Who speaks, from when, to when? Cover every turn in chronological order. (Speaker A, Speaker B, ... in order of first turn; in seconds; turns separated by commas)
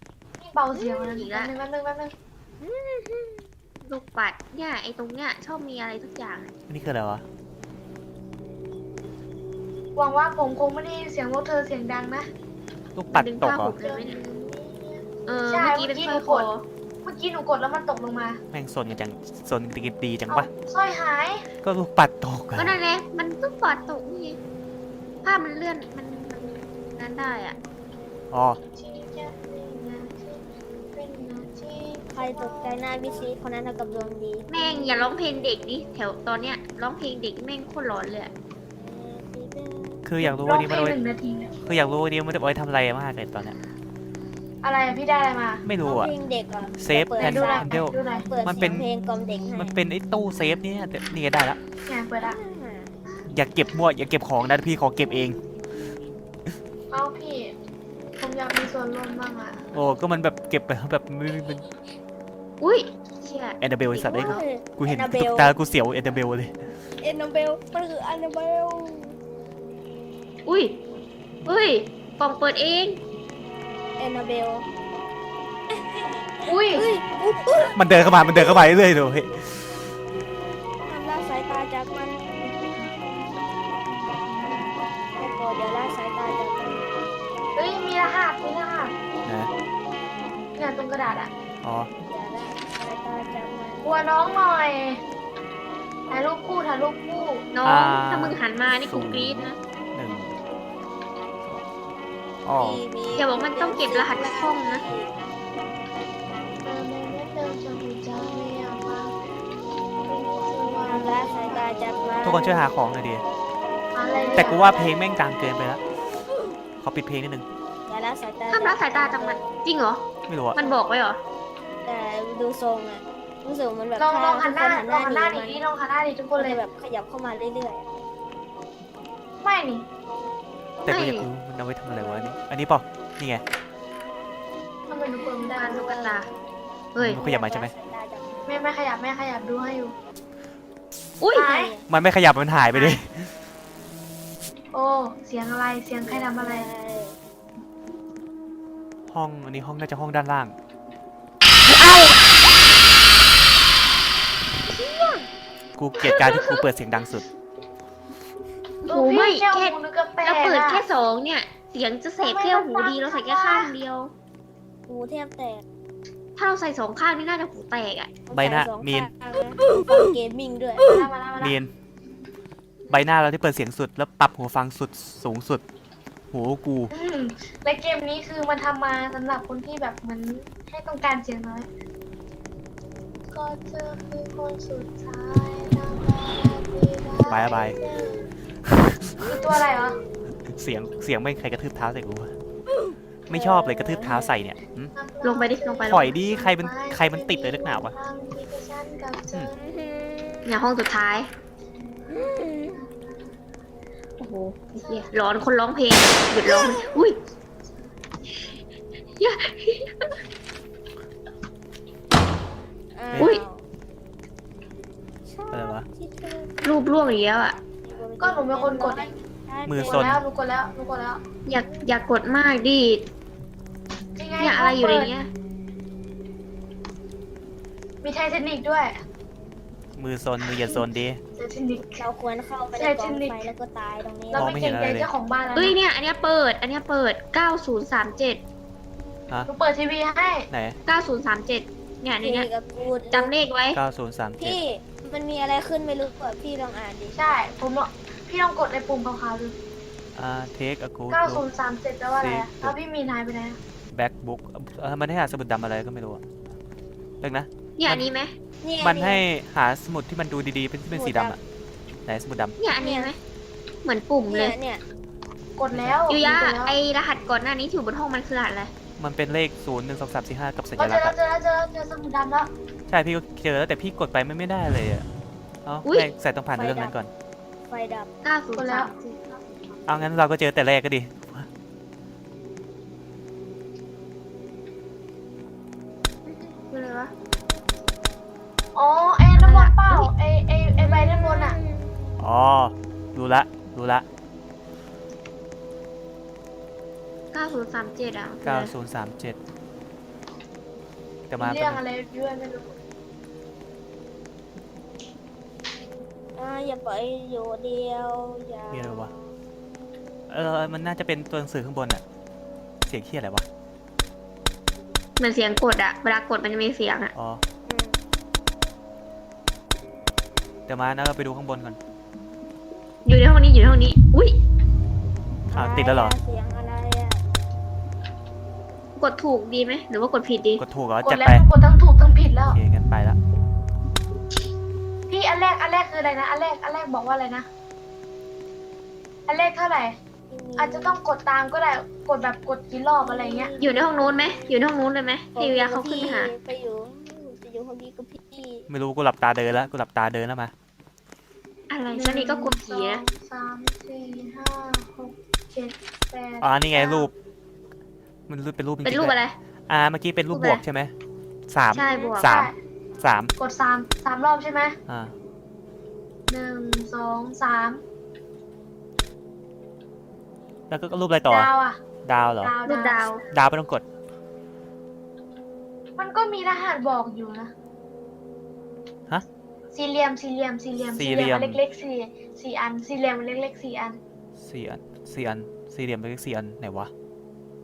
Speaker A: 0.4-2.1, Speaker B: 0.7-1.6, Speaker C: 2.6-3.5, Speaker B: 3.8-6.5, Speaker D: 6.7-7.2, Speaker A: 9.9-12.3, Speaker D: 12.9-13.8, Speaker B: 13.1-14.2, Speaker A: 13.8-16.5, Speaker B: 15.2-16.6, Speaker A: 17.0-18.4, Speaker D: 18.5-20.5, Speaker A: 20.3-21.5, Speaker D: 21.6-22.8, Speaker B: 22.6-24.4, Speaker B: 25.2-27.6, Speaker D: 28.3-28.6, Speaker A: 28.7-33.3, Speaker C: 32.1-35.0, Speaker B: 34.5-38.3, Speaker C: 38.8-40.0, Speaker D: 40.0-41.0, Speaker A: 40.2-41.5, Speaker C: 41.4-41.7, Speaker D: 41.6-43.5, Speaker A: 44.6-45.6, Speaker D: 45.6-46.1, Speaker C: 45.8-49.8, Speaker D: 46.8-48.9, Speaker A: 47.2-48.3, Speaker D: 49.5-51.6, Speaker A: 51.9-52.4, Speaker C: 52.2-52.9, Speaker D: 53.3-55.4, Speaker A: 56.9-57.5, Speaker A: 58.2-59.6, Speaker D: 59.7-61.6, Speaker B: 62.6-64.4, Speaker D: 63.6-66.6, Speaker C: 64.0-65.5, Speaker C: 67.0-69.2, Speaker B: 70.5-70.8, Speaker B: 71.4-73.0, Speaker C: 74.0-74.7, Speaker C: 75.7-77.8, Speaker A: 76.5-76.9, Speaker D: 77.8-79.7, Speaker C: 80.8-82.4, Speaker C: 85.2-86.8, Speaker A: 87.5-88.9, Speaker D: 89.2-89.5, Speaker A: 90.6-91.3, Speaker D: 91.6-91.9, Speaker C: 92.1-93.9, Speaker A: 93.8-95.0, Speaker A: 96.1-97.5, Speaker B: 97.5-99.6, Speaker D: 97.6-100.3, Speaker D: 102.4-102.8, Speaker C: 102.6-105.2, Speaker B: 103.1-104.8, Speaker A: 106.6-109.1, Speaker A: 110.0-111.7, Speaker C: 110.8-112.7, Speaker D: 112.2-113.2, Speaker A: 113.9-114.6, Speaker C: 114.0-115.0, Speaker D: 114.3-115.8, Speaker D: 116.8-117.5, Speaker C: 117.9-119.5, Speaker B: 118.5-121.2, Speaker D: 120.3-120.6, Speaker C: 121.8-125.6, Speaker A: 124.0-126.6, Speaker C: 126.3-127.9, Speaker A: 129.4-129.8, Speaker D: 130.8-133.4, Speaker B: 130.8-131.3, Speaker C: 131.9-132.4, Speaker A: 134.9-135.8, Speaker C: 135.2-136.3, Speaker B: 135.5-136.3, Speaker B: 136.9-137.3, Speaker D: 137.0-137.7, Speaker C: 137.1-138.7, Speaker A: 138.5-139.9, Speaker B: 141.2-141.5, Speaker A: 141.3-141.7, Speaker C: 141.4-141.8, Speaker D: 141.9-143.3, Speaker A: 142.7-143.0, Speaker A: 144.7-146.7, Speaker C: 146.0-147.2, Speaker D: 149.1-150.5, Speaker D: 155.8-157.2, Speaker B: 156.0-156.6, Speaker A: 158.8-160.8, Speaker B: 158.8-164.1, Speaker A: 162.2-163.7, Speaker C: 164.9-165.6, Speaker B: 166.4-168.1, Speaker C: 168.3-170.9, Speaker D: 168.3-169.1, Speaker A: 170.9-171.6, Speaker D: 171.4-171.7, Speaker D: 172.9-175.6, Speaker D: 176.3-176.9, Speaker A: 176.9-181.7, Speaker A: 183.3-188.3, Speaker D: 187.2-187.8, Speaker D: 188.7-189.3, Speaker A: 189.2-190.0, Speaker D: 190.5-192.3, Speaker D: 193.3-194.9, Speaker C: 193.3-194.5, Speaker A: 194.9-199.5, Speaker B: 195.2-196.1, Speaker D: 195.8-197.9, Speaker C: 199.6-200.6, Speaker B: 200.4-201.3, Speaker C: 202.1-202.8, Speaker B: 204.2-207.2, Speaker A: 204.8-205.1, Speaker C: 206.5-206.9, Speaker B: 209.2-210.1, Speaker C: 212.9-213.6, Speaker B: 213.2-213.4, Speaker C: 215.2-216.5, Speaker D: 215.5-215.9, Speaker B: 216.6-217.6, Speaker C: 217.8-220.2, Speaker A: 218.2-219.1, Speaker D: 219.7-220.2, Speaker A: 219.8-221.2, Speaker B: 221.4-223.1, Speaker C: 221.6-221.9, Speaker A: 224.2-225.1, Speaker B: 224.4-225.3, Speaker A: 228.0-229.0, Speaker D: 229.9-231.2, Speaker A: 231.3-232.0, Speaker C: 232.0-234.6, Speaker A: 232.7-233.5, Speaker A: 234.3-235.8, Speaker D: 234.3-235.1, Speaker B: 235.5-238.4, Speaker A: 239.5-240.5, Speaker D: 240.5-240.8, Speaker B: 240.8-242.5, Speaker C: 242.2-243.3, Speaker B: 243.1-243.8, Speaker D: 243.7-244.6, Speaker C: 244.4-247.4, Speaker A: 247.1-249.6, Speaker D: 250.1-251.4, Speaker A: 251.1-253.6, Speaker D: 252.1-252.8, Speaker D: 253.9-256.2, Speaker D: 257.2-258.1, Speaker B: 257.8-258.3, Speaker C: 258.6-259.2, Speaker D: 258.8-261.4, Speaker C: 260.9-261.4, Speaker D: 262.1-262.6, Speaker B: 262.6-263.2, Speaker C: 262.8-263.1, Speaker B: 263.8-264.6, Speaker C: 264.3-264.8, Speaker A: 265.6-266.8, Speaker D: 265.7-266.1, Speaker B: 266.1-268.7, Speaker D: 269.0-271.1, Speaker A: 270.7-272.5, Speaker D: 272.9-275.1, Speaker D: 275.6-277.1, Speaker B: 275.8-276.1, Speaker C: 276.5-277.0, Speaker C: 277.7-278.1, Speaker B: 278.2-279.4, Speaker A: 278.5-278.9, Speaker D: 279.9-281.5, Speaker C: 286.2-286.6, Speaker B: 286.7-287.1, Speaker A: 288.7-291.6, Speaker B: 289.3-290.1, Speaker C: 290.8-292.2, Speaker D: 292.2-294.1, Speaker B: 297.3-298.7, Speaker D: 298.4-299.4, Speaker D: 301.3-301.8, Speaker A: 301.4-302.7, Speaker C: 306.3-309.3, Speaker D: 308.7-309.1, Speaker D: 310.3-312.0, Speaker D: 312.9-313.4, Speaker B: 315.2-317.1, Speaker D: 317.1-317.4, Speaker C: 317.7-318.0, Speaker D: 320.7-321.8, Speaker B: 323.0-324.4, Speaker D: 325.5-326.2, Speaker C: 325.5-327.2, Speaker B: 329.0-330.6, Speaker D: 330.6-331.5, Speaker A: 331.0-332.6, Speaker D: 332.5-333.2, Speaker A: 335.1-337.5, Speaker A: 339.3-340.0, Speaker C: 340.3-341.0, Speaker A: 340.6-343.5, Speaker C: 343.0-344.6, Speaker B: 343.6-346.3, Speaker C: 345.3-348.7, Speaker D: 348.7-350.5, Speaker B: 351.7-353.0, Speaker A: 351.9-357.1, Speaker D: 356.4-357.1, Speaker D: 358.3-359.1, Speaker B: 358.8-359.4, Speaker D: 359.7-360.9, Speaker B: 360.3-360.6, Speaker D: 361.5-363.3, Speaker B: 361.7-362.3, Speaker C: 361.8-362.1, Speaker A: 361.9-362.6, Speaker A: 363.4-364.8, Speaker D: 364.9-365.1, Speaker A: 366.3-367.8, Speaker D: 370.7-371.5, Speaker A: 371.3-371.8, Speaker D: 372.0-372.6, Speaker A: 372.4-373.2, Speaker B: 372.6-373.2, Speaker D: 373.3-373.8, Speaker A: 376.0-377.5, Speaker A: 379.7-384.0, Speaker D: 380.9-381.6, Speaker D: 384.4-386.9